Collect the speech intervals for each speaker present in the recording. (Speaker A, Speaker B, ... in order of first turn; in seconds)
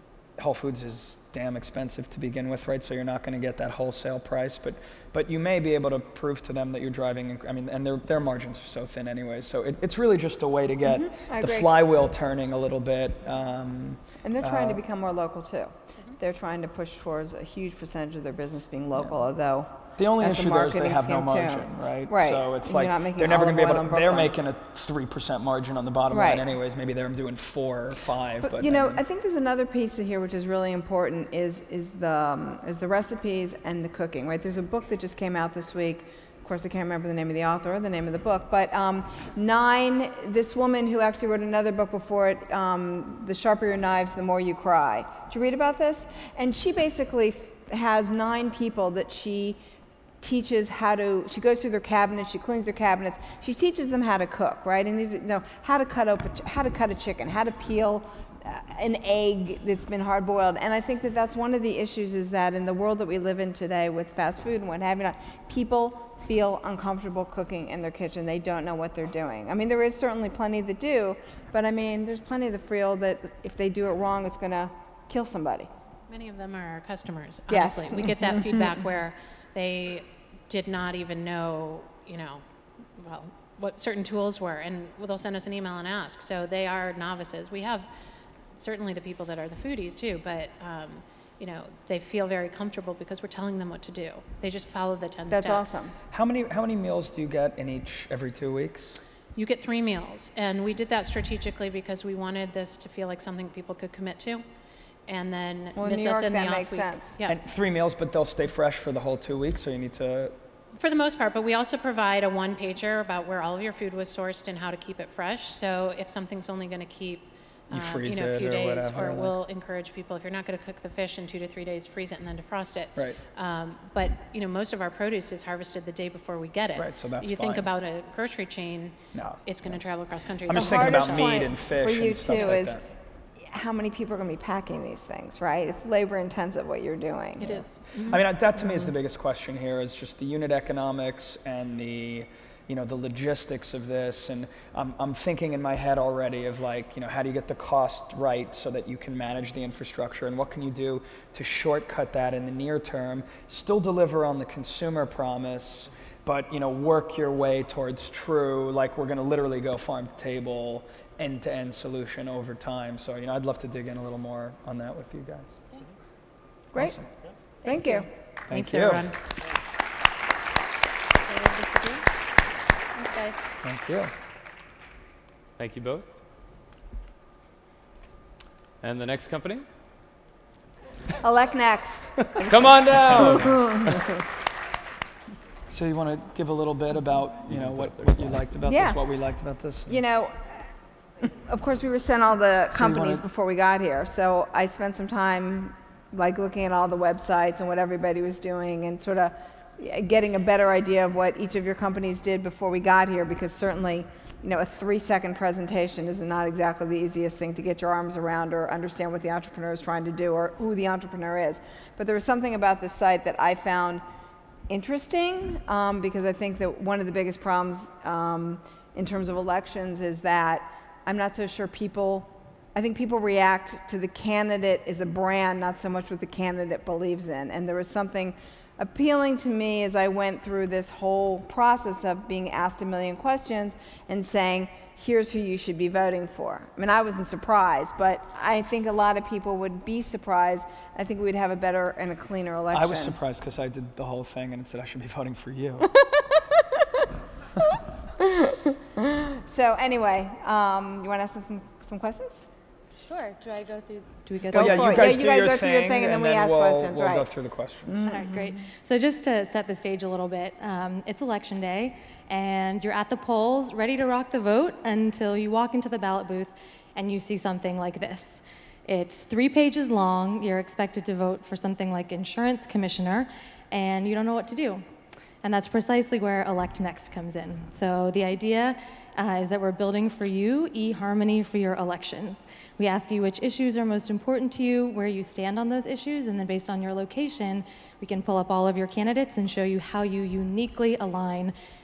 Speaker A: 0.4-14.8, 20.0-29.0, 96.1-99.0, 107.3-110.3, 117.7-119.3, 126.8-127.7, 129.1-129.8, 130.5-132.8, 137.4-165.6, 166.8-167.1, 168.5-169.1, 173.6-174.1, 183.1-183.7, 185.7-190.0, 192.7-193.2, 242.7-245.9, 254.5-258.1
Speaker B: 10.8-11.7, 14.2-24.3, 26.1-26.4, 28.4-49.6, 50.2-75.7, 77.5-78.7, 95.3-95.9, 105.8-107.1, 130.5-132.8, 133.4-137.6, 166.7-167.0, 167.6-168.1, 181.2-182.5, 183.2-184.0, 188.7-189.0, 189.9-190.7, 191.2-214.0, 214.7-243.2, 246.1-246.4, 248.2-252.5, 254.5-257.3, 257.9-258.6
Speaker C: 76.1-82.4, 83.0-87.9, 88.5-95.9, 99.3-104.4, 105.0-107.4, 110.7-131.5, 137.5-138.2, 167.6-169.2, 171.2-172.1, 172.9-173.5
Speaker D: 175.6-176.1, 178.8-179.6, 182.4-183.7, 187.5-188.4
Speaker E: 253.0-255.2, 258.1-274.8, 275.4-291.5